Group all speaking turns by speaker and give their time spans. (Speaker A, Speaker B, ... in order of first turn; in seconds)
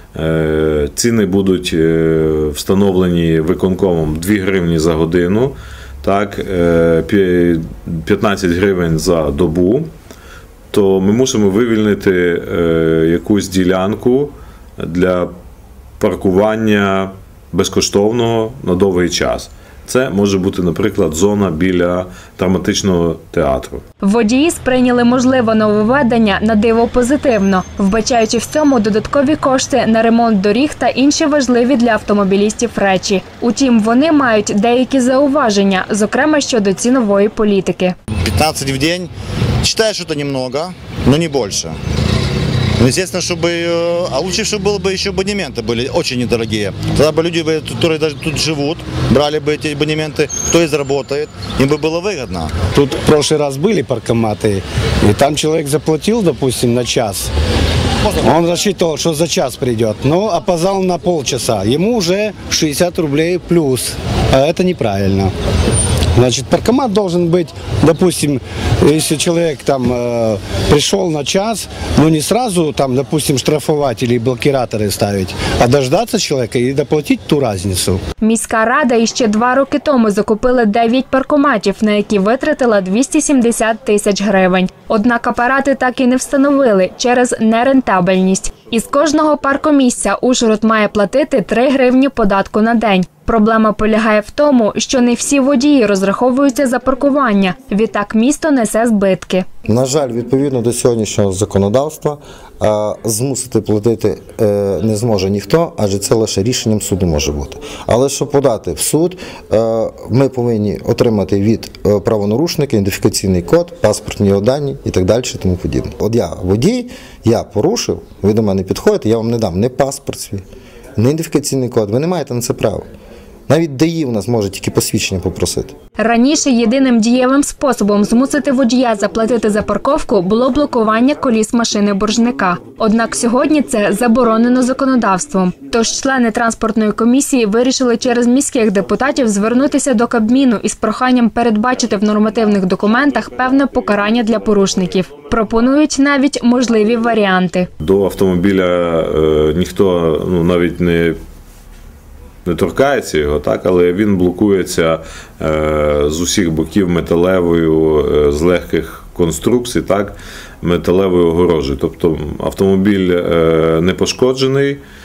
Speaker A: 0.1-9.9, 10.7-15.3, 16.0-23.8, 147.8-151.2, 152.5-164.8
Speaker B: 24.0-38.0, 78.2-99.5, 126.0-147.7
Speaker C: 38.2-41.8, 42.8-52.6
Speaker D: 52.6-57.3, 58.2-65.3, 66.1-78.0
Speaker E: 99.7-120.4, 121.0-122.9, 123.5-125.7